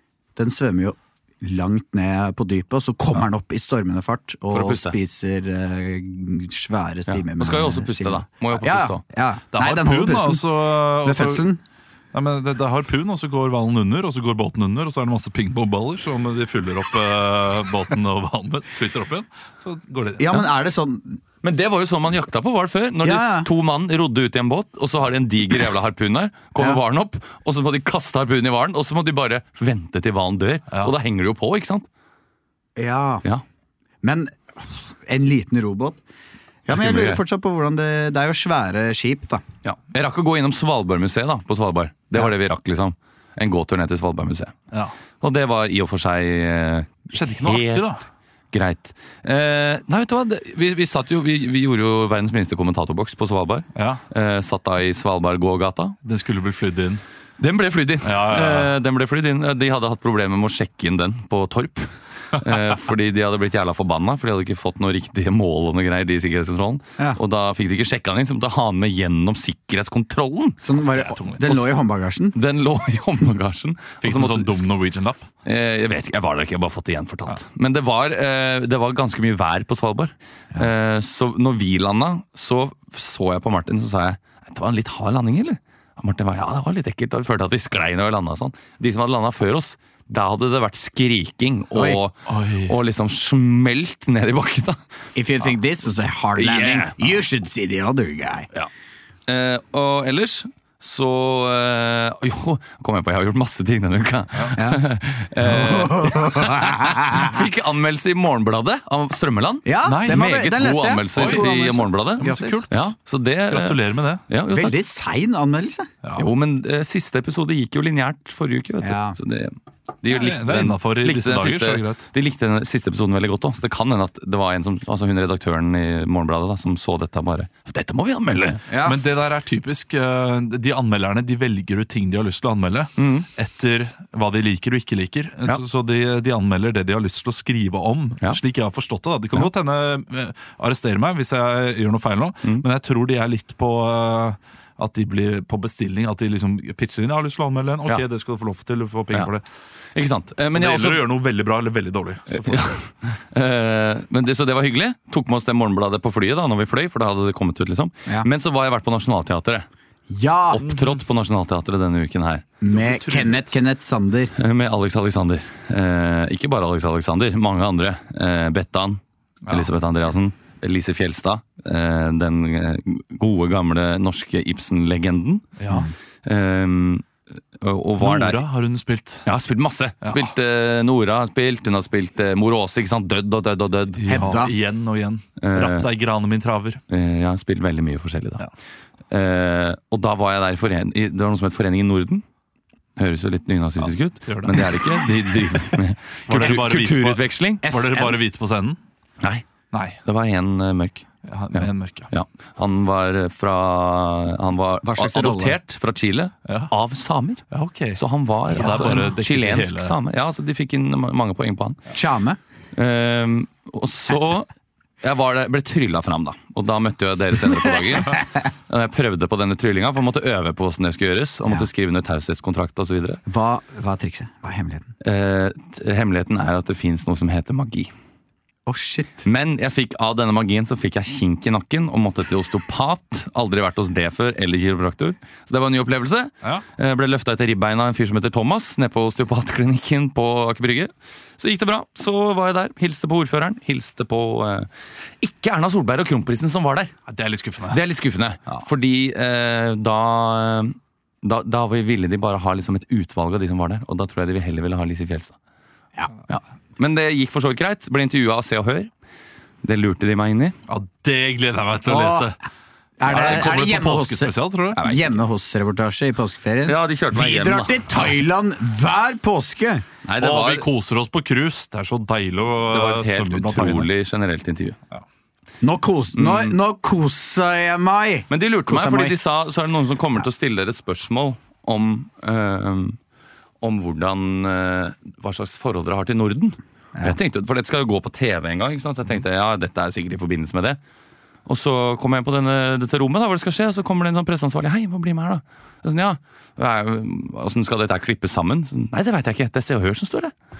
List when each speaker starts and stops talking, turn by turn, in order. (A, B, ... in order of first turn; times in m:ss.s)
0:00.4-0:10.4 A
0:04.5-0:05.0 B
0:07.1-0:09.0 B
0:09.5-0:11.4 C
0:11.0-0:11.6 A
0:12.1-0:20.5 C
0:20.2-0:21.2 A
0:21.4-0:31.9 B
0:23.0-0:23.5 A
0:30.7-0:30.9 C
0:32.8-0:33.2 A
0:34.0-0:36.0 A
0:36.7-0:39.4 A
0:36.7-0:37.2 B
0:39.6-0:44.5 B
0:45.2-0:47.9 B
0:47.1-0:48.0 C
0:48.5-0:56.0 B
0:53.7-0:54.0 C
0:56.0-0:57.0 C
0:57.4-1:10.6 B
0:58.0-0:58.7 C
1:10.6-1:12.4 A
1:10.9-1:11.6 C
1:12.3-1:14.6 B
1:14.0-1:15.3 C
1:15.4-1:34.8 B
1:32.2-1:32.7 C
1:35.1-1:38.5 A
1:36.4-1:37.1 B
1:39.3-1:54.8 B
1:44.5-1:44.8 A
1:45.4-1:47.4 A
1:49.6-1:52.7 A
1:49.8-1:50.3 C
1:51.1-1:52.9 C
1:53.5-1:54.2 C
1:54.5-1:55.9 A
1:56.0-1:56.3 C
1:56.1-2:08.6 B
1:58.8-1:59.2 A
2:00.1-2:02.1 C
2:08.7-2:09.0 A
2:08.8-2:29.4 C
2:13.0-2:13.3 B
2:29.9-2:31.1 B
2:30.5-2:32.8 C
2:32.3-2:39.6 B
2:40.1-2:40.6 A
2:40.5-2:42.5 B
2:40.6-2:41.0 C
2:42.6-2:44.3 A
2:42.7-2:43.6 C
2:44.3-2:55.4 B
2:49.4-2:49.7 C
2:55.6-2:55.9 C
2:55.7-2:55.9 A
2:56.2-2:58.4 B
2:58.0-2:59.3 C
2:59.2-3:04.3 B
3:00.0-3:00.3 C
3:04.0-3:06.8 C
3:04.1-3:04.5 A
3:05.4-3:05.9 B
3:06.9-3:08.5 B
3:09.1-3:12.2 B
3:13.0-3:18.1 B
3:13.8-3:18.8 C
3:17.8-3:18.0 A
3:19.2-3:19.5 B
3:19.7-3:20.0 C
3:20.0-3:27.4 B
3:21.2-3:22.1 C
3:24.8-3:25.6 A
3:26.4-3:26.7 C
3:27.5-3:30.0 C
3:28.0-3:31.8 B
3:28.5-3:29.1 A
3:31.9-3:32.4 A
3:32.7-3:34.5 B
3:35.0-3:43.2 B
3:43.3-3:44.9 A
3:45.0-3:47.9 B
3:48.6-3:49.2 A
3:49.2-4:06.9 B
4:07.1-4:07.8 C
4:07.7-4:15.4 B
4:16.3-4:18.9 B
4:19.6-4:20.5 B
4:20.7-4:22.4 C
4:21.8-4:22.3 A
4:23.0-4:29.8 A
4:23.0-4:24.8 C
4:24.7-4:25.2 B
4:26.6-4:27.8 B
4:30.0-4:30.7 B
4:30.2-4:33.9 C
4:32.7-4:34.8 B
4:35.6-4:39.1 A
4:36.2-4:36.5 B
4:38.3-4:43.0 B
4:43.6-4:50.8 B
4:51.4-5:00.3 B